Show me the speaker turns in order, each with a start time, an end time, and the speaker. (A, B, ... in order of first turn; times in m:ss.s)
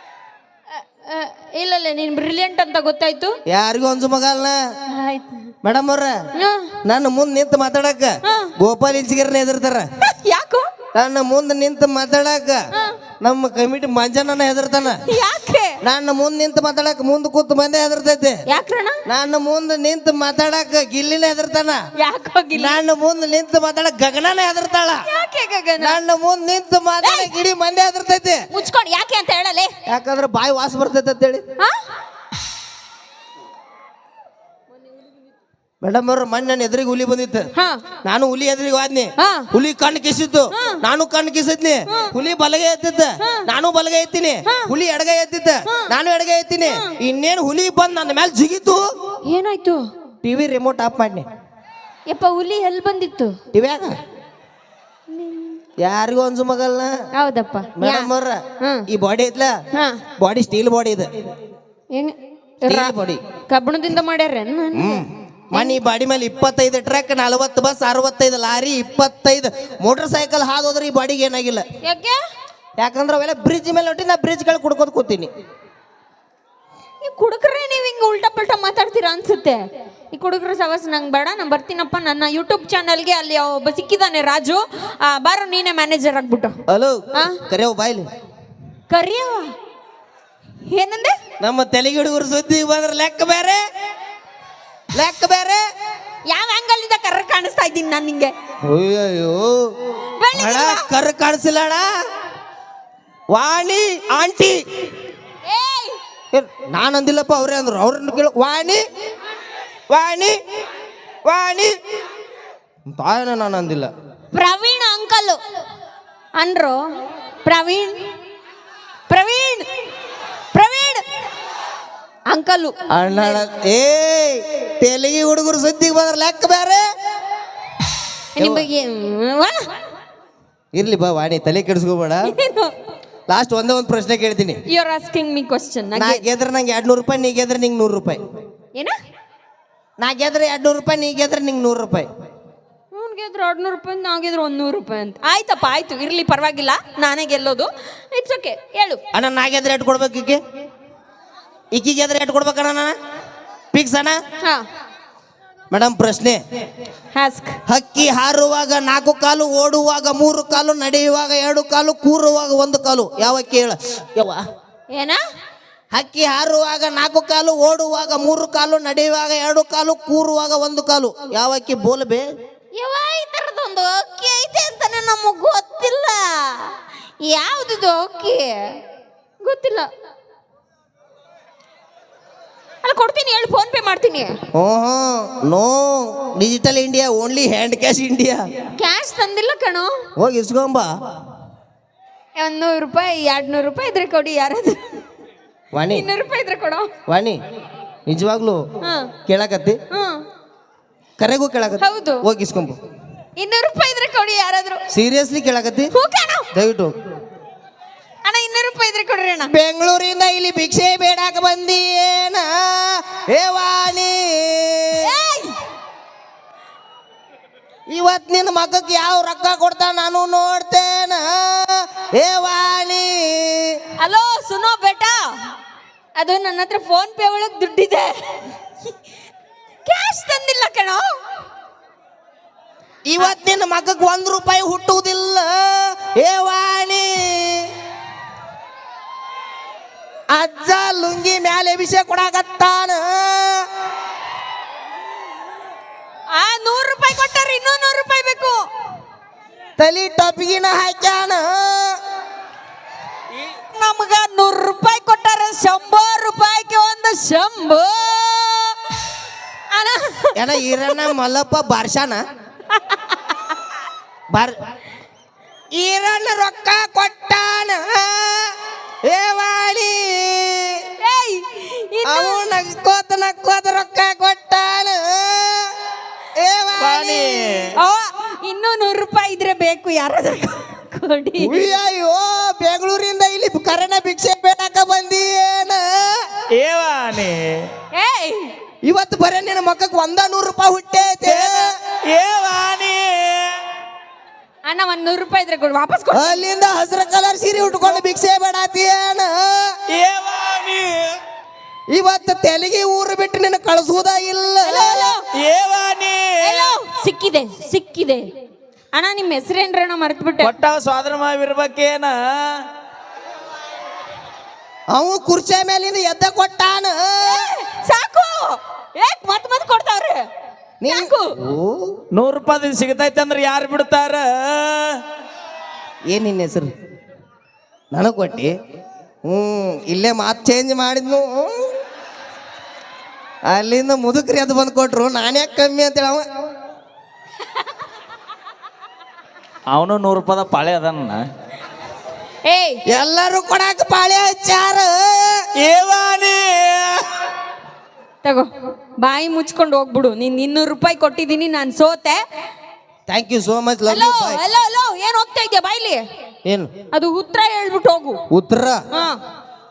0:00.8-0:03.4 A
0:03.5-0:04.6 B
0:04.9-0:05.5 A
0:05.6-0:06.2 B
0:06.4-0:06.8 A
0:06.8-0:09.9 B
0:08.2-0:08.5 A
0:10.0-0:10.7 A
0:10.9-0:12.7 B
0:13.2-0:15.0 B
0:15.1-0:15.8 A
0:15.8-0:18.4 B
0:18.5-0:19.0 A
0:19.1-0:21.8 B
0:22.0-0:22.8 A
0:22.6-0:25.0 B
0:25.1-0:26.0 A
0:25.8-0:28.4 B
0:27.0-0:27.3 A
0:28.5-0:29.7 A
0:29.9-0:31.4 B
0:35.8-0:37.5 B
0:37.6-0:37.8 A
0:38.0-0:48.9 B
0:39.2-0:39.5 A
0:40.5-0:40.8 A
0:43.2-0:43.5 A
0:45.7-0:45.9 A
0:46.7-0:46.9 A
0:49.2-0:49.9 A
0:50.2-0:51.3 B
0:52.1-0:53.4 A
0:53.5-0:54.0 B
0:55.1-0:55.6 A
0:55.8-0:57.0 B
0:57.2-0:58.1 A
0:57.8-0:59.6 B
0:58.6-0:58.8 A
0:59.7-1:00.0 A
1:00.2-1:01.1 B
1:01.9-1:03.0 A
1:02.7-1:03.2 B
1:03.5-1:05.8 A
1:04.7-1:11.6 B
1:11.8-1:12.2 A
1:12.8-1:15.3 B
1:17.0-1:26.6 A
1:26.7-1:28.1 B
1:27.2-1:27.4 A
1:28.9-1:29.5 A
1:30.7-1:31.2 A
1:31.4-1:33.6 B
1:35.0-1:35.6 B
1:36.3-1:38.3 A
1:38.6-1:39.6 B
1:40.2-1:40.8 A
1:40.3-1:41.9 B
1:43.3-1:44.6 B
1:45.4-1:46.0 A
1:46.3-1:48.8 B
1:49.9-1:50.4 B
1:51.2-1:51.8 B
1:52.9-1:53.9 B
1:54.3-1:55.4 A
1:56.4-1:56.8 A
1:57.4-1:58.0 A
1:59.1-1:59.7 A
2:00.5-2:01.0 A
2:02.3-2:03.4 A
2:02.9-2:06.8 B
2:08.4-2:09.7 A
2:08.4-2:08.6 B
2:10.7-2:12.3 B
2:12.2-2:12.7 A
2:13.3-2:14.6 B
2:14.7-2:16.2 A
2:16.0-2:18.2 B
2:20.0-2:22.1 B
2:22.9-2:29.0 A
2:29.1-2:30.4 B
2:31.7-2:33.0 B
2:33.7-2:34.2 B
2:35.7-2:36.4 B
2:37.1-2:37.6 A
2:37.7-2:44.4 B
2:44.9-2:45.2 A
2:45.9-2:52.3 B
2:52.8-2:58.8 A
2:59.4-2:59.9 A
3:02.8-3:04.4 A
3:04.5-3:08.5 B
3:08.8-3:10.1 A
3:10.2-3:10.9 B
3:12.4-3:14.8 A
3:15.7-3:16.0 B
3:15.9-3:16.9 A
3:17.1-3:17.4 B
3:18.1-3:18.7 B
3:18.8-3:19.1 A
3:19.3-3:19.8 B
3:19.9-3:20.2 A
3:21.2-3:22.8 B
3:21.8-3:22.2 A
3:23.4-3:24.8 A
3:24.9-3:25.9 B
3:25.9-3:26.5 A
3:26.5-3:26.9 B
3:28.2-3:29.5 A
3:29.5-3:35.1 B
3:35.0-3:35.6 A
3:37.9-3:43.8 B
3:44.0-3:45.2 A
3:46.2-3:48.4 A
3:49.9-3:51.1 A
3:53.1-3:57.7 B
4:00.3-4:03.7 B
4:06.3-4:08.6 A
4:09.8-4:12.0 B
4:13.7-4:18.8 A
4:19.7-4:21.1 A
4:20.4-4:22.2 B
4:22.7-4:23.2 A
4:25.8-4:28.5 B
4:29.0-4:30.8 B
4:31.0-4:32.6 A
4:32.1-4:35.7 B
4:36.4-4:37.2 B
4:36.8-4:37.8 C
4:37.7-4:41.6 A
4:41.4-4:46.2 B
4:46.5-4:47.7 C
4:47.9-4:48.5 A
4:48.8-4:51.7 B
4:51.2-4:53.6 C
4:54.6-4:56.4 A
4:56.1-4:59.8 B
4:59.9-5:01.2 C
5:01.9-5:05.1 B
5:04.6-5:05.2 A
5:05.3-5:06.8 C
5:06.4-5:08.3 A
5:08.9-5:10.5 A
5:10.4-5:12.6 C
5:14.9-5:17.5 B
5:17.2-5:20.2 A
5:20.8-5:21.9 B
5:20.9-5:21.3 A
5:22.1-5:25.0 C
5:26.1-5:26.7 B
5:27.9-5:28.5 B
5:29.3-5:31.7 B
5:33.5-5:36.2 B
5:39.7-5:41.2 C
5:42.4-5:42.8 A
5:42.9-5:45.5 B
5:45.6-5:47.1 C
5:48.2-5:52.2 A
5:53.1-5:54.4 B
5:53.9-5:56.0 A
5:56.5-5:56.7 B
5:56.9-5:58.2 A
5:58.3-5:58.8 B
5:58.9-5:59.2 A